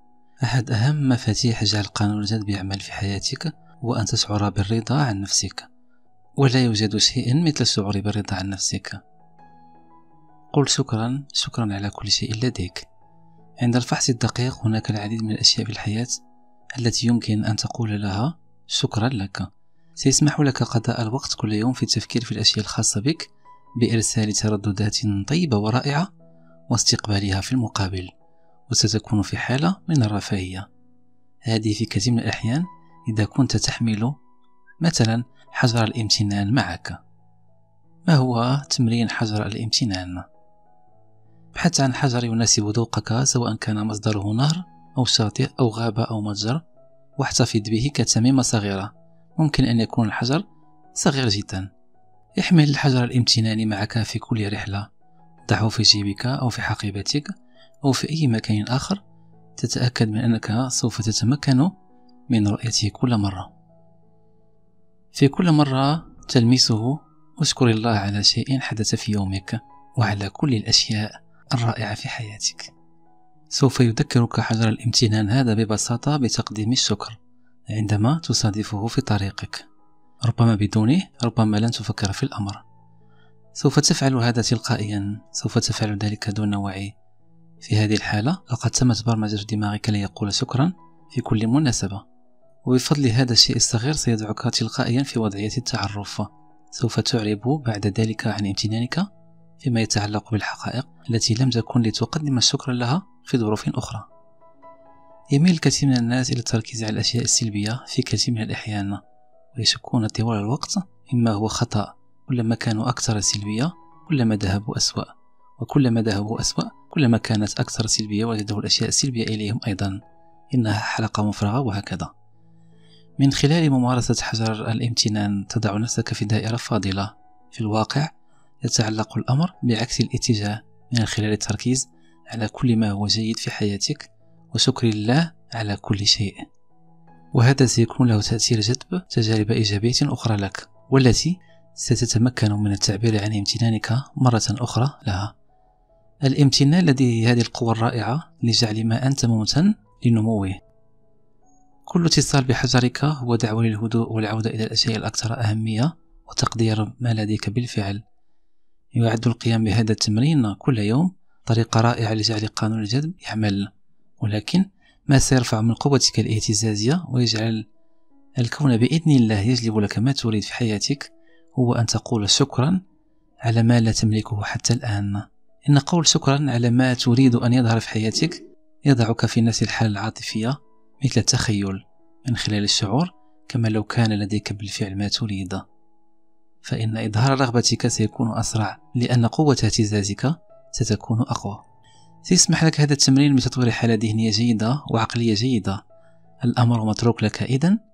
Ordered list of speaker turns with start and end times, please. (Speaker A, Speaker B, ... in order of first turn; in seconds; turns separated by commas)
Speaker A: 0.4-5.7, Speaker A: 6.4-9.0, Speaker A: 10.5-12.9, Speaker A: 13.6-16.2, Speaker A: 16.8-26.1, Speaker A: 26.7-28.1, Speaker A: 28.7-30.7, Speaker A: 31.4-34.2, Speaker A: 34.8-37.0, Speaker A: 38.1-40.3, Speaker A: 41.5-46.6, Speaker A: 47.2-51.7, Speaker A: 52.4-54.9, Speaker A: 55.5-59.0, Speaker A: 59.6-61.7, Speaker A: 62.3-63.5, Speaker A: 65.1-72.7, Speaker A: 73.5-79.7, Speaker A: 80.2-82.6, Speaker A: 83.5-87.0, Speaker A: 87.6-92.0, Speaker A: 92.7-99.1, Speaker A: 99.6-104.1, Speaker A: 105.3-109.0, Speaker A: 109.5-120.0, Speaker A: 120.5-122.1, Speaker A: 123.2-128.1, Speaker A: 128.6-136.5, Speaker A: 137.3-145.3, Speaker A: 146.2-150.6, Speaker A: 151.9-158.0, Speaker A: 158.9-167.7, Speaker A: 168.4-172.8, Speaker A: 173.4-185.6, Speaker A: 186.6-191.6, Speaker A: 192.2-195.8, Speaker A: 196.4-197.8